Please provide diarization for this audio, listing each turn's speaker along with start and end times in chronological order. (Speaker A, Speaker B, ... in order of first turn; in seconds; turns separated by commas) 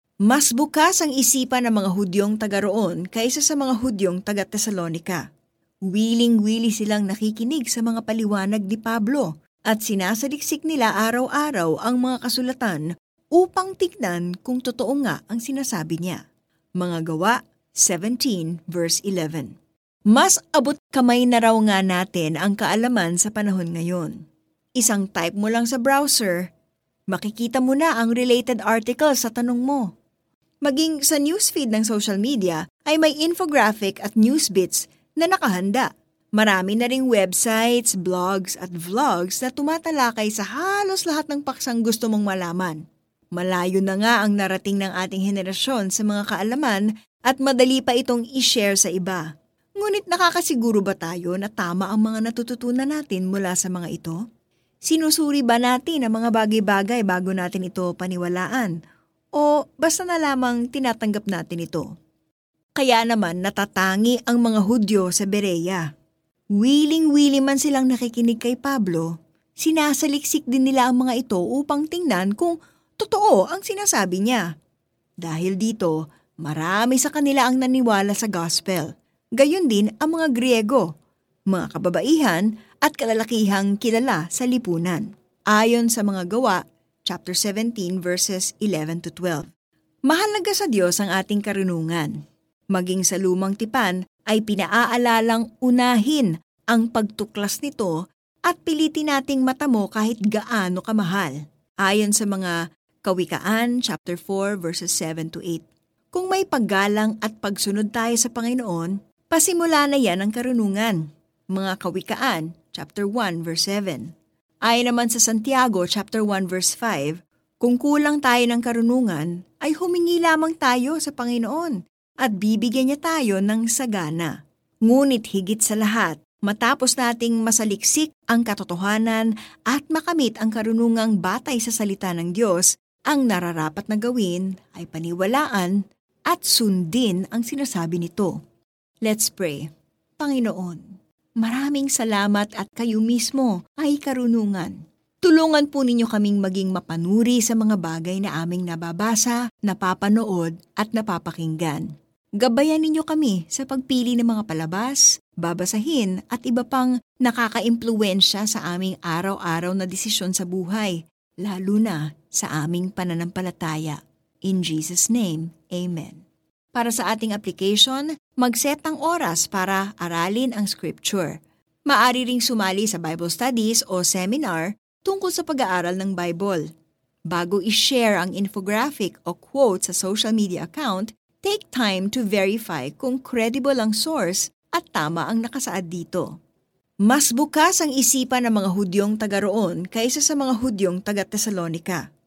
Speaker A: 0.2-5.2, Speaker A: 5.8-16.2, Speaker A: 16.8-19.5, Speaker A: 20.1-24.2, Speaker A: 24.8-26.5, Speaker A: 27.1-29.9, Speaker A: 30.6-42.8, Speaker A: 43.3-54.2, Speaker A: 54.9-58.8, Speaker A: 59.4-61.9, Speaker A: 62.8-65.8, Speaker A: 66.5-74.4, Speaker A: 75.2-80.9, Speaker A: 81.5-89.5, Speaker A: 90.1-92.2, Speaker A: 92.7-114.1, Speaker A: 114.6-124.3, Speaker A: 124.9-138.4, Speaker A: 139.0-139.7, Speaker A: 140.2-140.9, Speaker A: 141.4-151.9, Speaker A: 152.4-166.2, Speaker A: 166.7-176.7, Speaker A: 177.3-186.3, Speaker A: 187.1-192.0